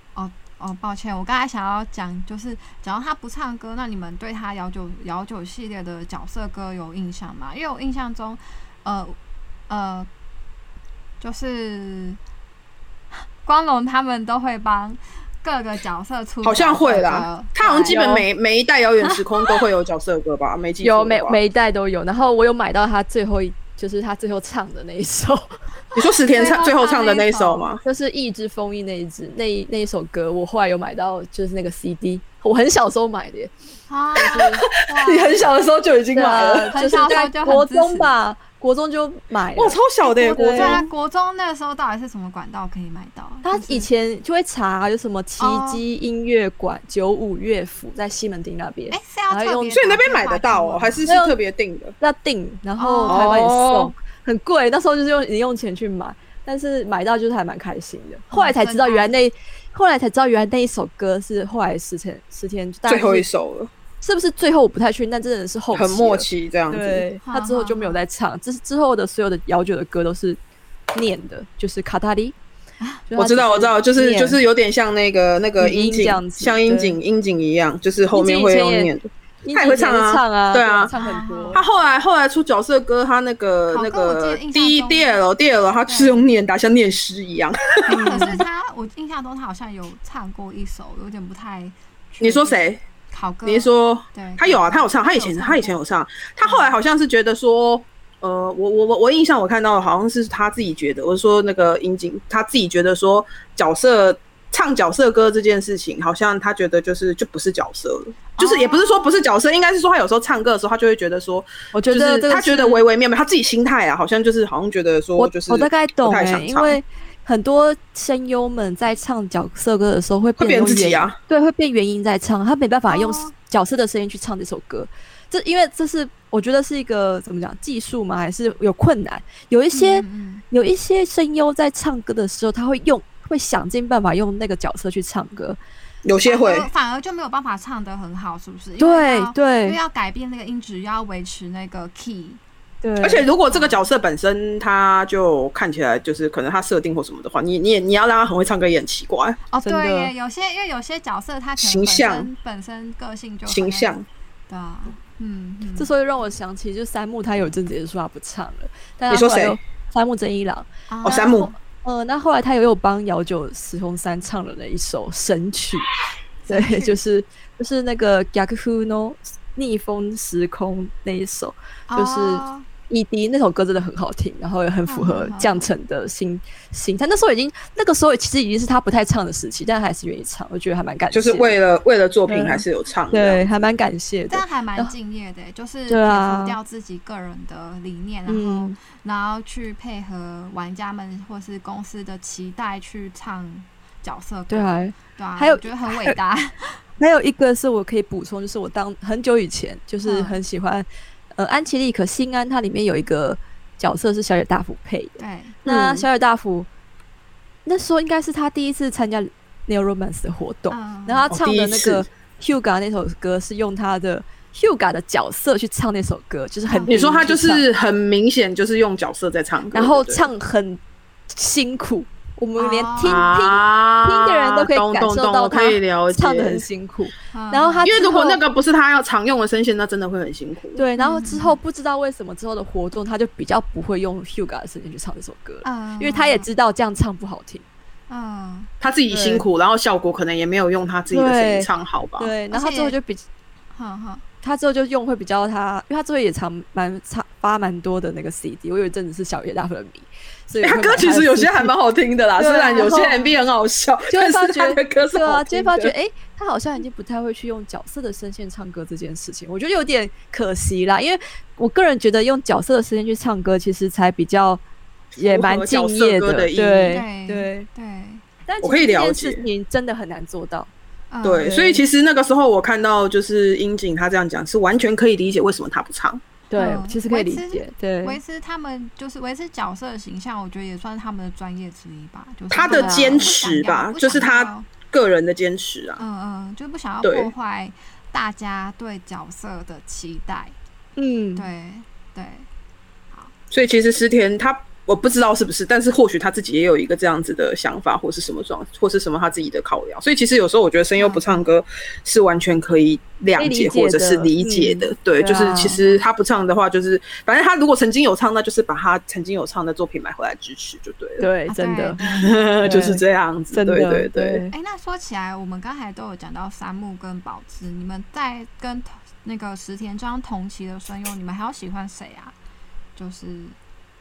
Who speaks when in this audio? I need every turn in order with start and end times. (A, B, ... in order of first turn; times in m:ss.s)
0:00.2-0:09.2 A
0:09.7-0:10.1 A
0:11.2-0:12.2 A
0:13.4-0:18.0 A
0:16.4-0:21.4 B
0:17.9-0:18.3 C
0:20.8-0:25.6 C
0:26.0-0:27.8 B
0:26.3-0:27.7 A
0:27.8-0:33.5 C
0:33.9-0:35.5 A
0:34.2-0:34.6 C
0:34.2-0:36.7 B
0:36.1-0:39.8 C
0:36.7-0:38.1 A
0:39.5-0:40.9 B
0:40.0-0:43.9 A
0:40.3-0:40.9 C
0:43.4-0:49.8 C
0:45.4-0:45.8 A
0:48.9-0:51.0 A
0:49.7-0:52.0 B
0:51.0-0:51.4 C
0:52.0-1:03.3 C
0:52.8-0:53.4 A
0:53.1-0:53.9 B
0:58.3-0:59.2 A
1:02.9-1:03.7 B
1:04.0-1:10.4 C
1:05.7-1:07.1 B
1:07.2-1:08.0 A
1:10.9-1:12.4 C
1:13.1-1:14.4 C
1:13.2-1:21.0 B
1:15.6-1:17.0 C
1:18.1-1:21.7 C
1:20.9-1:21.7 A
1:21.5-1:28.4 B
1:23.7-1:25.2 A
1:25.9-1:26.2 A
1:27.8-1:35.8 A
1:27.9-1:28.4 C
1:32.2-1:32.8 B
1:33.5-1:56.8 B
1:36.4-1:36.8 A
1:48.4-1:49.3 A
1:51.7-1:52.8 C
1:55.2-2:15.6 C
2:00.4-2:01.2 B
2:02.9-2:03.3 A
2:09.7-2:10.4 A
2:16.0-2:16.7 B
2:16.2-2:22.4 A
2:18.8-2:19.8 C
2:22.8-2:23.3 C
2:23.0-2:29.4 B
2:23.5-2:23.9 A
2:29.5-2:33.9 A
2:29.6-2:30.1 C
2:31.6-2:32.3 B
2:33.5-2:34.1 B
2:34.5-2:35.9 A
2:35.8-2:45.9 C
2:39.1-2:39.6 B
2:40.9-2:41.5 A
2:41.0-2:41.5 B
2:46.4-2:47.0 A
2:46.5-3:01.6 C
2:51.9-2:52.7 A
2:54.9-2:55.7 A
3:01.1-3:03.7 B
3:02.3-3:04.9 C
3:04.3-3:16.8 A
3:05.9-3:06.6 C
3:08.3-3:08.8 C
3:14.5-3:16.2 C
3:17.0-3:26.7 C
3:20.0-3:20.4 A
3:25.2-3:25.6 A
3:25.6-3:26.1 B
3:27.6-3:37.7 C
3:30.7-3:31.3 A
3:31.3-3:32.1 B
3:36.7-3:37.2 A
3:36.9-3:40.3 B
3:39.7-3:48.4 C
3:42.6-3:43.3 A
3:43.0-3:46.7 B
3:47.3-3:48.2 A
3:47.8-3:50.8 B
3:50.8-3:57.6 C
3:51.0-3:51.6 A
3:55.6-3:56.5 A
3:58.1-3:58.7 A
3:58.8-4:02.3 B
3:59.1-3:59.4 C
4:01.1-4:03.2 C
4:02.5-4:03.0 A
4:03.7-4:04.2 A
4:04.4-4:11.7 C
4:10.6-4:15.9 B
4:12.4-4:13.2 C
4:12.5-4:13.4 A
4:14.1-4:24.6 C
4:25.2-4:27.0 B
4:25.2-4:27.7 C
4:26.9-4:28.2 A
4:28.5-4:30.7 C
4:28.6-4:29.4 B
4:31.1-4:31.6 A
4:31.2-4:36.2 B
4:31.4-4:31.8 C
4:36.5-4:38.2 C
4:36.6-4:44.7 A
4:42.5-4:46.0 B
4:42.7-4:43.3 C
4:46.0-4:50.6 A
4:47.0-4:47.3 B
4:51.0-4:51.5 C
4:51.4-4:52.5 A
4:53.5-5:11.3 B
5:01.0-5:01.5 A
5:03.4-5:05.8 C
5:05.7-5:06.0 A
5:11.2-5:12.0 C
5:11.5-5:12.6 A
5:12.0-5:14.4 B
5:12.6-5:14.5 C
5:14.5-5:22.4 A
5:23.0-5:23.6 A